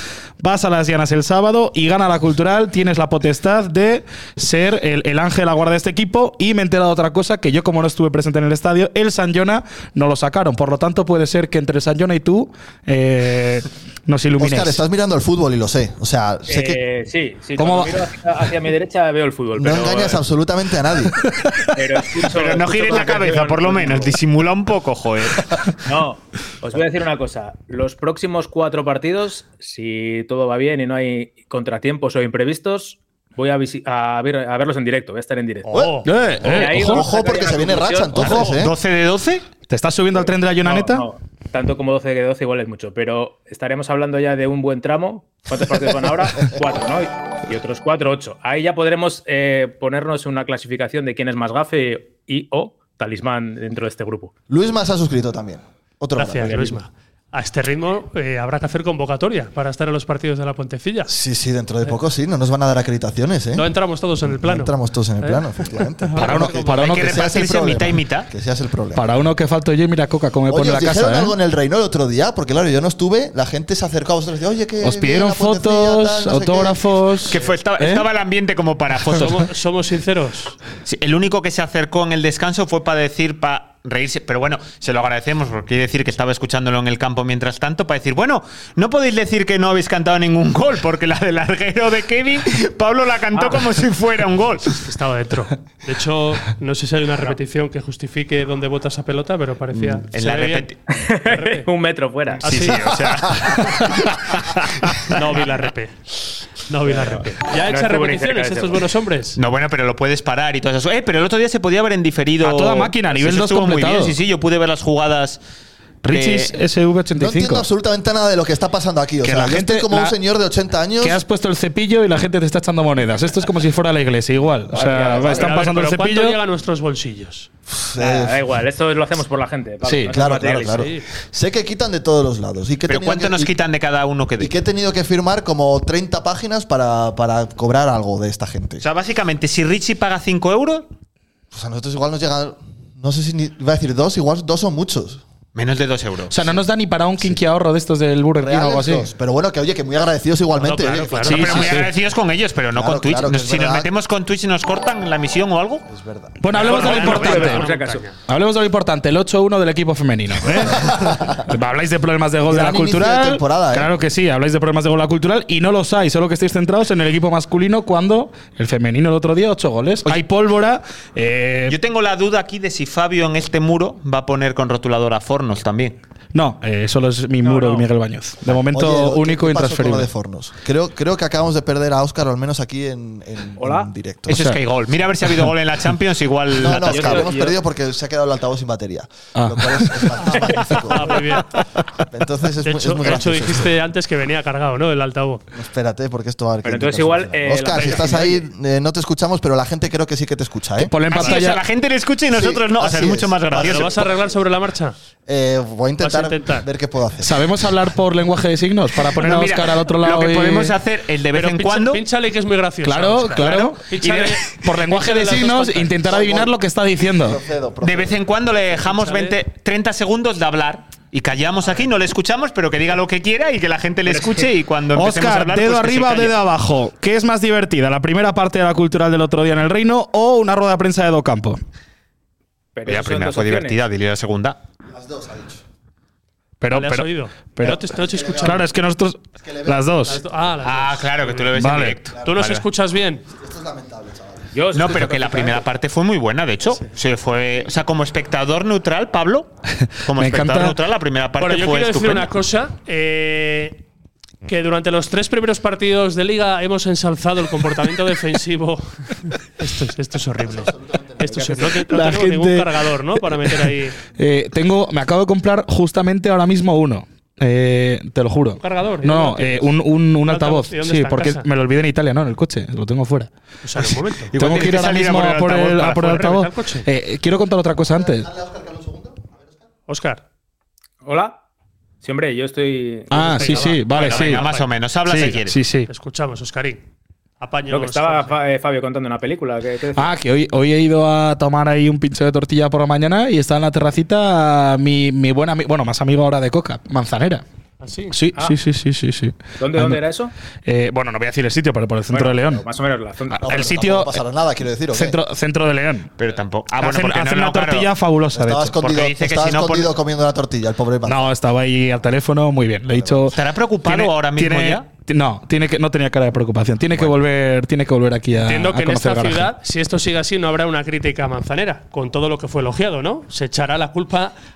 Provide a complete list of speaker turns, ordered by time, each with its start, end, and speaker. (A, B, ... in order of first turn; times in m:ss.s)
0:00.4-0:14.8 A
0:14.4-0:16.8 B
0:16.5-0:20.2 C
0:17.6-0:17.9 A
0:19.5-0:21.2 B
0:21.2-0:21.7 A
0:21.7-0:24.2 C
0:22.2-0:25.6 D
0:25.8-0:35.7 C
0:35.6-0:36.1 E
0:35.7-0:38.7 B
0:36.0-0:37.0 A
0:36.4-0:38.2 C
0:38.2-0:39.4 D
0:39.7-0:41.0 A
0:40.1-0:54.3 C
0:54.5-0:56.8 B
0:56.2-1:01.1 E
0:56.4-0:56.7 C
1:01.1-1:03.7 B
1:03.5-1:06.9 E
1:04.2-1:09.1 B
1:06.2-1:07.1 A
1:06.6-1:08.3 D
1:08.9-1:11.3 A
1:10.5-1:16.9 B
1:14.8-1:18.0 A
1:17.3-1:19.5 D
1:19.1-1:20.6 E
1:20.8-1:34.8 D
1:33.3-1:33.6 C
1:34.8-1:40.7 E
1:39.7-1:40.8 D
1:40.9-1:42.8 C
1:41.2-1:41.7 E
1:42.4-1:43.0 E
1:42.4-1:45.2 D
1:43.6-1:43.9 E
1:45.0-1:46.0 E
1:46.7-1:49.4 E
1:46.8-1:48.9 C
1:49.4-1:55.4 D
1:52.4-1:54.1 A
1:56.0-1:57.7 A
1:56.1-1:56.6 D
1:57.2-2:01.2 B
1:59.2-2:00.2 A
2:01.0-2:06.4 A
2:04.7-2:05.5 C
2:05.2-2:07.5 E
2:07.7-2:08.4 B
2:08.0-2:10.9 C
2:09.8-2:10.1 A
2:10.1-2:13.5 B
2:10.6-2:11.0 E
2:12.9-2:14.5 D
2:14.4-2:18.8 B
2:18.8-2:20.8 D
2:21.5-2:25.2 B
2:25.5-2:26.3 D
2:26.3-2:29.1 A
2:28.4-2:31.8 B
2:30.6-2:31.8 E
2:31.2-2:35.8 D
2:31.2-2:31.9 A
2:32.7-2:33.9 B
2:35.9-2:36.5 B
2:36.4-2:37.6 A
2:36.5-2:38.2 E
2:36.6-2:38.0 C
2:38.3-2:51.8 A
2:40.6-2:41.4 B
2:42.5-2:43.9 B
2:51.7-2:56.0 D
2:56.3-3:00.1 A
2:57.4-2:57.9 C
2:58.4-3:04.4 B
3:03.6-3:03.9 C
3:04.3-3:07.3 D
3:04.3-3:04.6 A
3:06.5-3:11.4 B
3:06.6-3:07.6 C
3:09.3-3:10.1 A
3:10.3-3:11.6 E
3:12.1-3:13.7 B
3:12.6-3:15.4 E
3:15.5-3:20.9 B
3:16.6-3:18.4 C
3:20.8-3:21.6 A
3:21.1-3:24.1 D
3:22.3-3:24.3 B
3:23.5-3:25.0 E
3:25.2-3:27.5 B
3:26.0-3:26.7 E
3:27.2-3:30.7 A
3:29.2-3:32.0 D
3:31.3-3:36.0 E
3:32.8-3:33.9 A
3:34.0-3:34.4 D
3:34.6-3:37.4 A
3:36.0-3:36.5 B
3:37.1-3:38.2 B
3:37.8-3:46.4 D
3:38.8-3:39.4 E
3:44.1-3:44.5 C
3:44.9-3:51.6 A
3:52.7-3:53.8 C
3:52.8-3:54.6 D
3:54.9-3:55.6 B
3:56.6-3:57.8 A
3:56.7-3:58.6 E
3:57.9-3:58.6 B
3:58.3-4:00.2 A
3:59.4-4:00.4 B
4:00.0-4:01.5 E
4:00.6-4:02.6 D
4:01.5-4:02.0 A
4:02.2-4:03.2 E
4:03.3-4:04.5 B
4:04.5-4:05.6 C
4:04.7-4:09.5 D
4:10.0-4:12.3 D
4:10.2-4:10.7 A
4:11.4-4:13.8 E
4:14.4-4:24.0 E
4:20.4-4:21.8 B
4:21.3-4:21.6 C
4:21.8-4:33.3 A
4:28.6-4:31.5 E
4:33.6-4:34.5 E
4:33.8-4:38.3 A
4:34.3-4:36.2 D
4:35.8-4:36.9 E
4:37.9-4:39.5 B
4:39.9-4:40.2 E
4:41.0-4:41.4 C
4:42.0-4:43.8 C
4:43.1-4:44.4 A
4:43.2-4:44.7 E
4:43.9-4:45.6 D
4:45.0-4:45.9 A
4:45.9-4:46.8 E
4:47.4-4:48.4 E
4:47.7-4:50.1 C
4:50.0-4:57.4 A
4:57.8-4:58.2 E
4:58.1-5:00.0 A
4:59.6-5:00.3 C
5:00.6-5:02.6 A
5:02.1-5:03.5 C
5:03.3-5:04.2 A
5:03.4-5:05.2 B
5:04.9-5:06.1 A
5:06.2-5:07.9 D
5:06.8-5:08.7 A
5:08.3-5:11.3 B
5:08.8-5:09.9 D
5:11.1-5:19.5 A
5:12.9-5:13.3 B
5:13.3-5:14.8 D
5:18.4-5:24.3 E